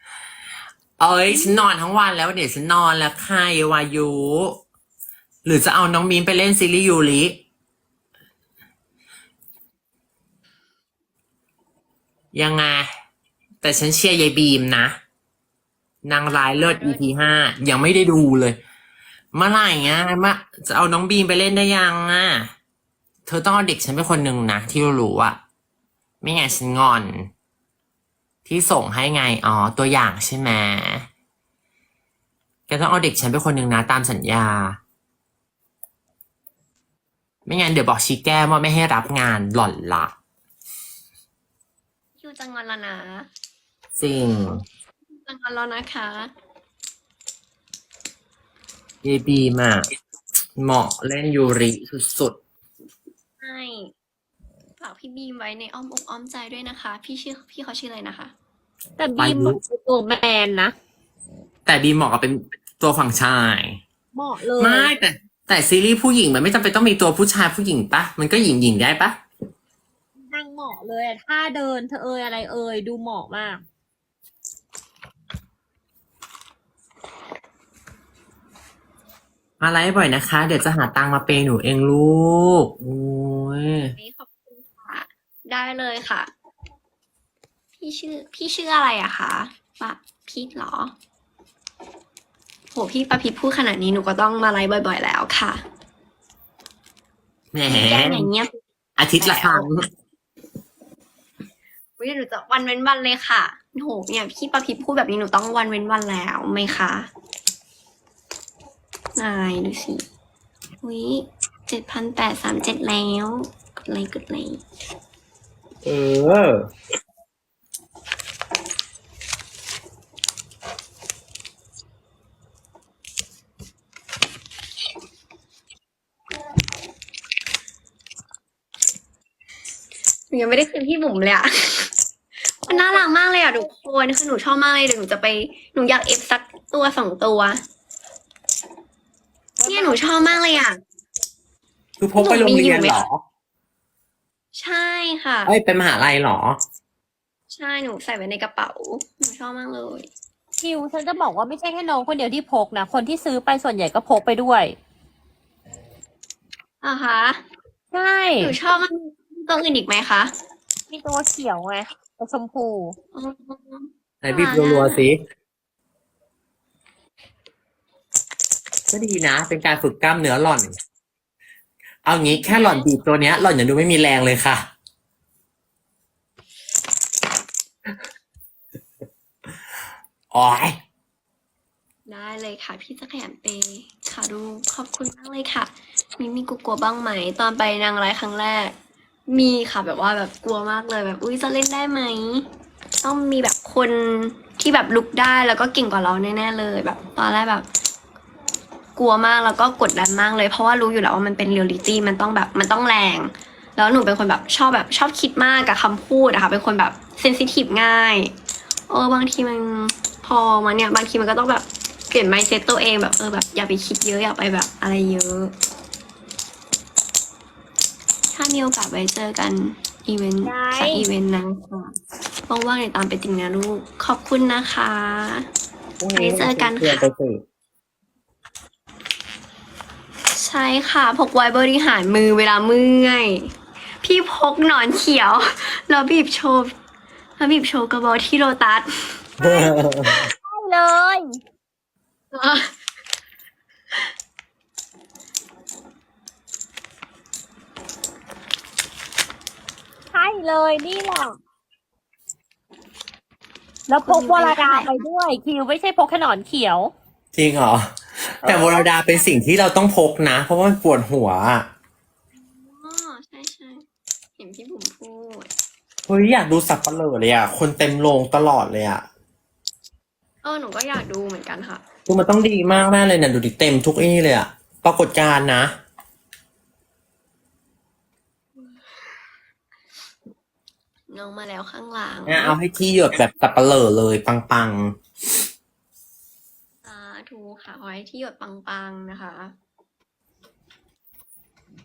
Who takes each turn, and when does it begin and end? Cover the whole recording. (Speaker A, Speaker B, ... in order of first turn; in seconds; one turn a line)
Speaker A: 1.0-4.6
Speaker A: 5.4-7.4
Speaker A: 12.3-12.9
Speaker A: 13.6-14.9
Speaker A: 16.0-18.6
Speaker B: 16.3-17.1
Speaker A: 19.3-22.5
Speaker A: 23.2-25.4
Speaker A: 26.2-27.3
Speaker A: 28.4-31.1
Speaker A: 32.7-34.8
Speaker A: 37.5-40.1
Speaker B: 42.2-43.3
Speaker A: 44.0-44.6
Speaker B: 45.1-46.3
Speaker A: 49.0-49.8
Speaker A: 50.6-52.4
Speaker B: 53.4-53.9
Speaker B: 54.8-58.3
Speaker C: 59.0-60.7
Speaker A: 59.2-59.6
Speaker A: 61.6-63.8
Speaker C: 64.1-65.0
Speaker A: 64.6-69.2
Speaker C: 70.2-73.6
Speaker A: 79.6-83.9
Speaker B: 84.0-86.3
Speaker B: 87.8-90.9
Speaker B: 92.7-95.6
Speaker A: 97.5-98.3
Speaker B: 97.7-98.5
Speaker A: 99.0-99.8
Speaker B: 99.2-99.7
Speaker B: 102.0-107.1
Speaker B: 109.2-110.0
Speaker B: 110.8-114.6
Speaker A: 115.8-116.7
Speaker B: 130.3-131.9
Speaker B: 132.6-137.6
Speaker C: 132.7-133.0
Speaker C: 139.6-140.6
Speaker B: 139.6-140.8
Speaker A: 142.0-143.2
Speaker B: 142.2-143.0
Speaker B: 144.5-145.5
Speaker A: 145.4-146.6
Speaker B: 147.5-150.1
Speaker C: 150.6-154.8
Speaker B: 156.8-157.4
Speaker C: 157.9-158.6
Speaker B: 158.4-160.3
Speaker C: 160.9-162.9
Speaker B: 163.1-165.0
Speaker A: 164.2-165.2
Speaker A: 168.9-170.7
Speaker A: 172.0-174.7
Speaker B: 172.3-172.9
Speaker A: 180.3-180.8
Speaker B: 182.1-188.7
Speaker B: 189.3-192.4
Speaker B: 193.0-197.7
Speaker B: 198.9-208.3
Speaker B: 208.9-215.5
Speaker B: 218.3-221.9
Speaker C: 220.4-221.1
Speaker B: 222.5-225.5
Speaker A: 226.0-227.4
Speaker B: 226.1-227.0
Speaker B: 230.3-233.5
Speaker B: 234.0-236.7
Speaker B: 237.4-239.7
Speaker A: 239.4-240.2
Speaker C: 240.1-241.4
Speaker B: 242.3-242.7
Speaker C: 250.1-251.3
Speaker C: 253.9-256.9
Speaker B: 254.0-255.0
Speaker A: 257.3-261.7
Speaker B: 258.4-259.4
Speaker B: 262.5-263.8
Speaker B: 264.4-265.5
Speaker A: 266.1-269.0
Speaker B: 270.4-271.8
Speaker A: 272.1-275.7
Speaker B: 281.1-282.6
Speaker A: 282.3-285.0
Speaker B: 286.8-289.5